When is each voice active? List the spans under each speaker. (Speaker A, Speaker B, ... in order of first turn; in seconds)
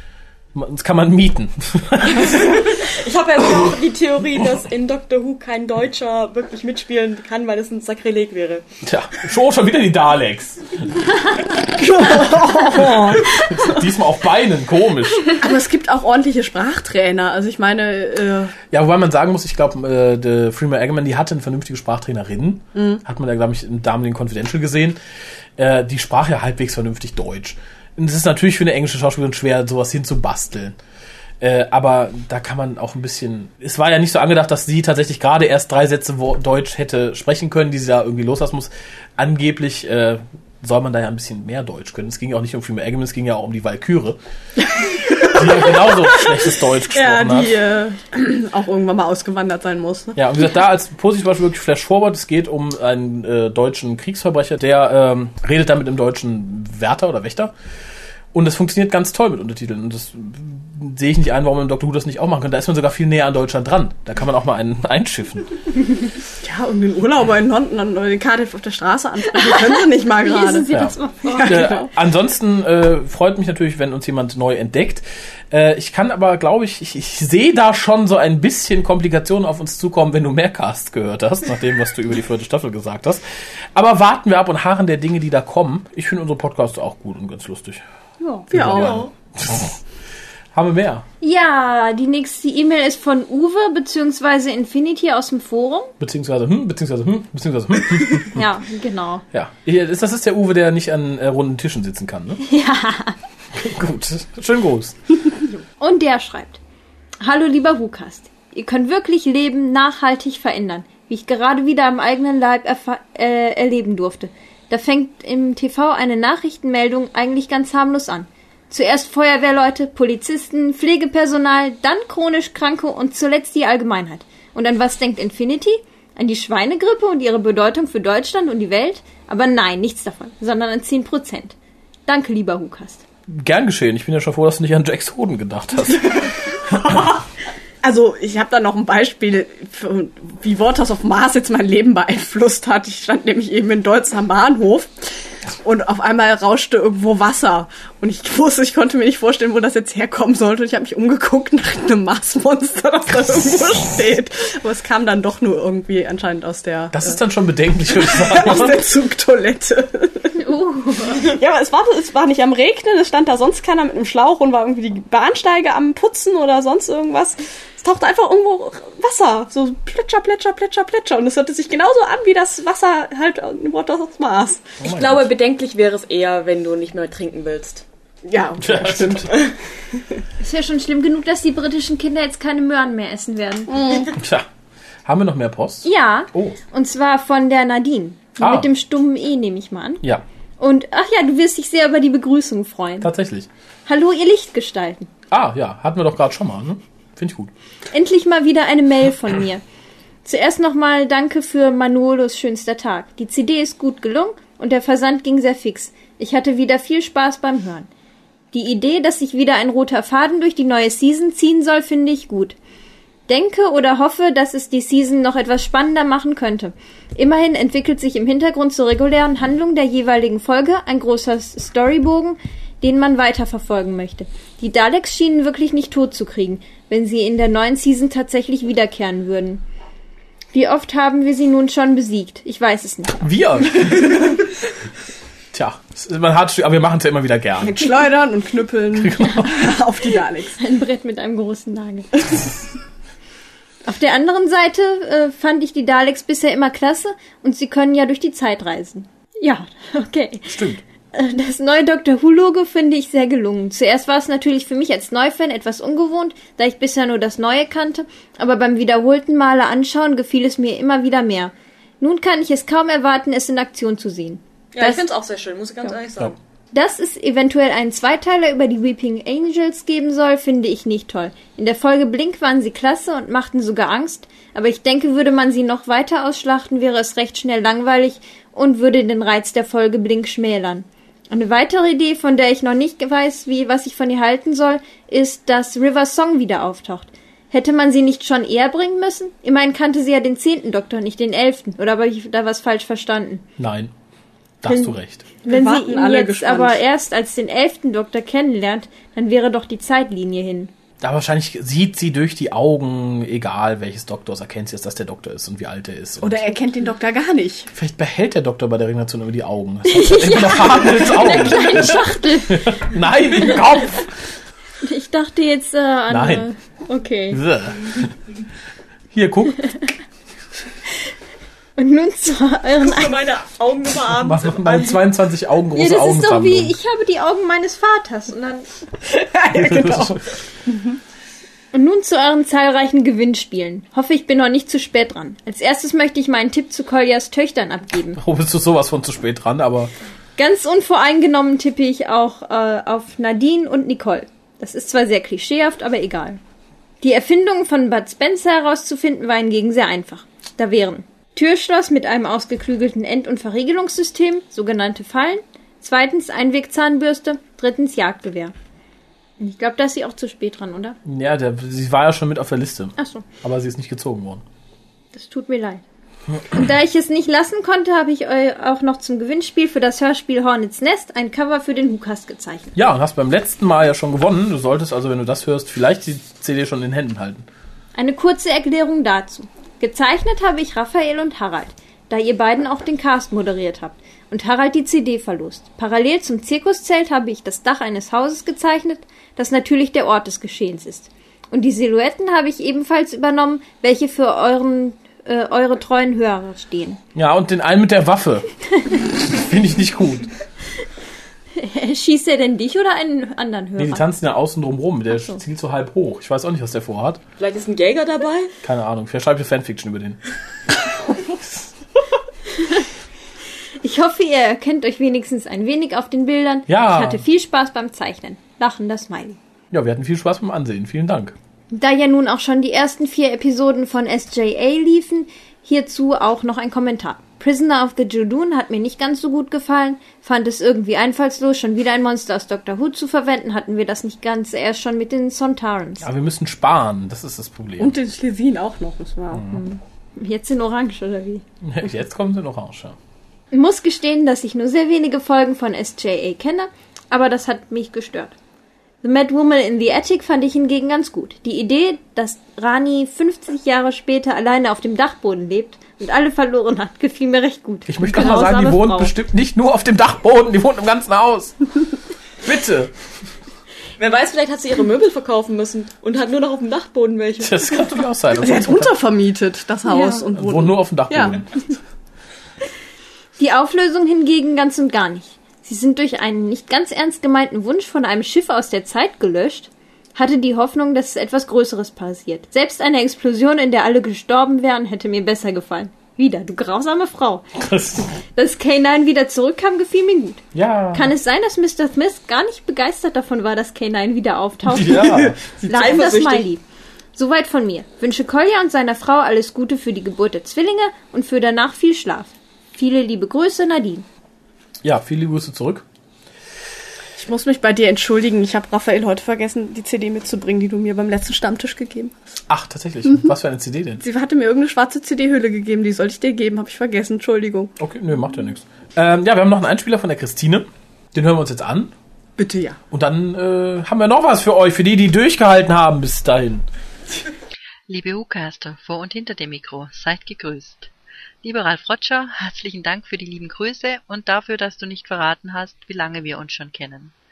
Speaker A: 0.5-2.7, 8.8-10.9, 12.7-15.3, 18.7-25.0, 25.6-30.8, 31.4-44.2, 45.3-47.5, 50.1-57.5, 58.3-65.5, 70.7-83.2, 83.7-87.8, 88.5-89.8, 90.5-91.0, 96.0-98.5, 99.3-102.4, 103.5-105.0, 133.3-137.1, 156.9-158.8, 174.8-175.3, 178.6-179.3, 184.1-184.5, 185.0-186.6, 188.4-188.7, 193.0-193.5, 195.3-197.5, 233.2-234.3, 235.5-237.9, 239.0-239.5, 250.5-250.8, 293.6-293.9, 294.6-295.2, 301.0-306.5, 307.7-314.1, 316.1-316.5, 317.3-318.1, 319.1-319.7, 324.1-326.7, 329.5-330.2, 338.2-339.9, 361.0-364.4, 372.8-377.4, 397.1-398.5, 399.2-400.3, 403.8-407.2, 408.6-410.2, 416.7-417.2, 419.7-421.4, 436.0-437.9, 439.3-439.6, 441.6-443.0, 457.9-461.6, 462.4-462.9, 467.4-468.9, 470.3-471.5, 487.6-488.2, 490.5-491.1, 494.7-495.4, 504.8-505.8, 512.5-514.0, 517.8-521.9, 522.9-526.6
Speaker B: 2.2-8.6, 174.8-177.8, 264.7-266.4, 322.8-325.0, 407.4-408.5, 464.0-467.8, 495.8-496.3
Speaker C: 11.7-13.2, 15.4-18.6, 22.7-23.0, 44.7-50.2, 66.4-70.7, 71.3-71.8, 88.5-89.1, 136.1-137.2, 137.8-157.2, 158.0-160.3, 161.2-174.7, 178.2-179.4, 183.7-184.1, 237.6-240.6, 295.4-296.8, 306.2-307.7, 329.1-330.9, 437.8-439.4, 468.4-471.4, 495.1-496.4, 507.2-512.2, 514.0-517.7, 522.4-522.8
Speaker D: 70.2-71.8, 91.2-95.9, 98.3-99.2, 102.4-103.2, 105.8-106.6, 107.2-131.5, 132.1-133.0, 160.4-161.3, 180.4-184.0, 185.8-190.0, 190.6-193.1, 193.9-195.1, 197.9-199.6, 200.2-207.9, 208.5-212.6, 213.3-229.6, 230.5-233.2, 240.6-242.4, 243.8-265.0, 266.7-293.4, 294.6-300.7, 309.9-312.8, 313.4-313.7, 314.8-317.4, 321.8-323.1, 325.7-328.7, 331.7-338.2, 340.4-346.4, 347.0-358.5, 359.4-361.0, 363.0-363.2, 365.1-365.8, 366.5-372.7, 377.9-397.0, 401.6-404.0, 413.8-419.4, 421.7-436.1, 439.5-441.4, 443.5-448.3, 449.0-459.1, 469.9-470.2, 473.4-487.5, 488.3-496.6, 497.1-504.0
Speaker E: 527.9-530.9, 531.4-537.1